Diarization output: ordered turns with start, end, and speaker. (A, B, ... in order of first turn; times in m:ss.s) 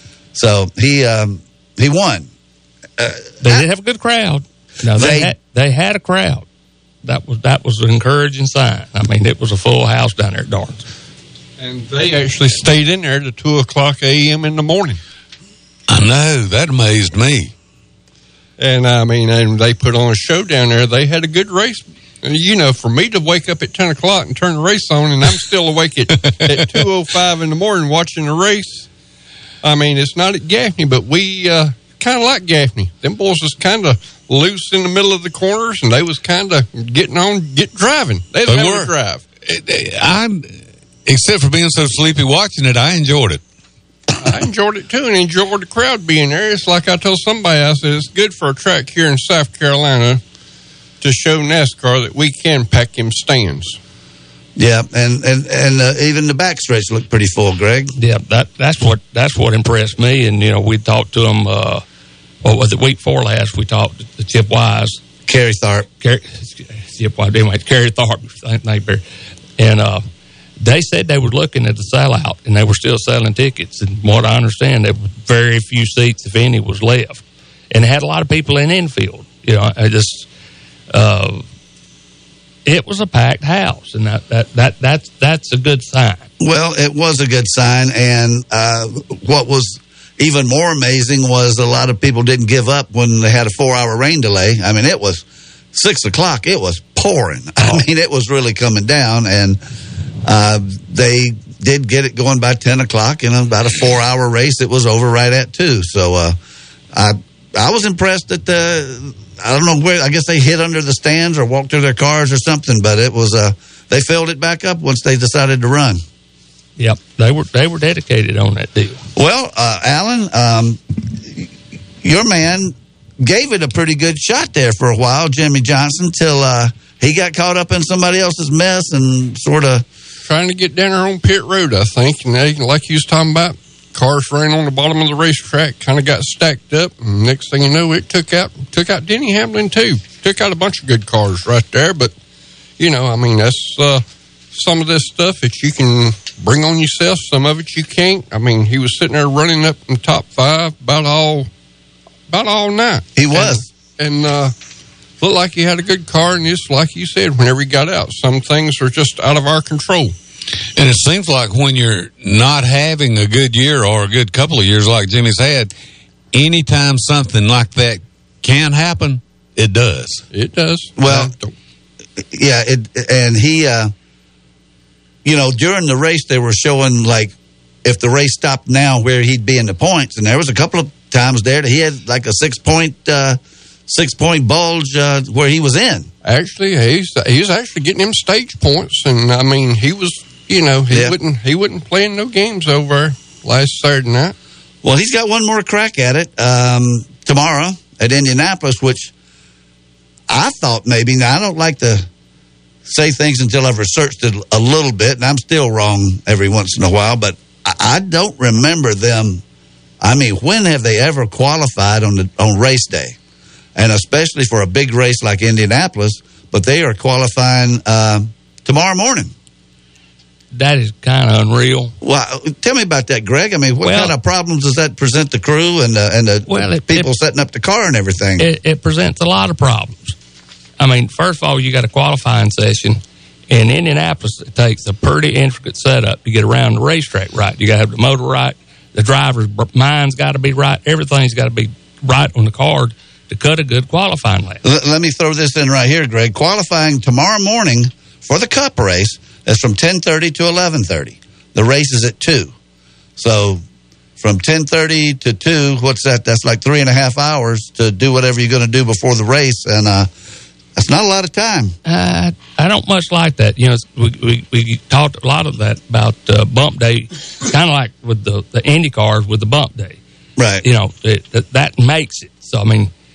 0:00.3-0:02.3 A
0:03.0-0:03.6 A
0:03.4-0:06.4 B
0:05.0-0:05.3 A
0:07.0-0:10.8 B
0:11.6-0:15.0 C
0:15.9-0:17.5 D
0:18.6-0:28.9 C
0:26.2-0:26.8 D
0:29.6-0:39.2 C
0:38.4-0:38.9 D
0:39.4-0:43.4 D
0:44.2-0:50.2 C
0:51.0-0:53.8 C
0:54.6-0:57.9 A
0:58.0-1:01.8 B
1:02.4-1:05.0 B
1:05.2-1:05.9 A
1:06.0-1:09.0 B
1:09.6-1:10.0 B
1:10.6-1:20.3 B
1:20.9-1:21.4 B
1:22.6-1:26.2 B
1:26.4-1:39.6 A
1:40.2-1:46.4 A
1:46.9-1:56.0 A
1:56.8-1:59.0 B
1:59.1-2:01.5 A
2:02.0-2:09.8 A
2:10.2-2:22.1 C
2:22.8-2:31.5 C
2:32.3-2:34.5 C
2:33.2-2:33.6 A
2:35.2-2:40.1 C
2:40.7-2:45.7 D
2:46.3-2:50.2 D
2:50.3-2:51.5 C
2:51.0-2:51.3 A
2:52.3-2:53.9 A
2:55.2-3:06.1 A
3:06.2-3:14.3 C
3:10.9-3:11.2 A
3:14.8-3:19.1 A
3:20.3-3:22.1 A
3:22.8-3:29.4 A
3:30.0-3:33.2 A
3:33.8-3:39.3 A
3:40.5-3:41.9 B
3:42.0-3:48.5 A
3:43.8-3:44.1 B
3:46.5-3:47.1 B
3:48.4-3:50.2 B
3:50.8-4:04.6 B
4:04.6-4:12.5 A
4:13.2-4:13.6 A
4:14.2-4:20.1 A
4:20.8-4:21.7 A
4:21.8-4:30.0 B
4:30.4-4:30.6 A
4:30.6-4:32.9 B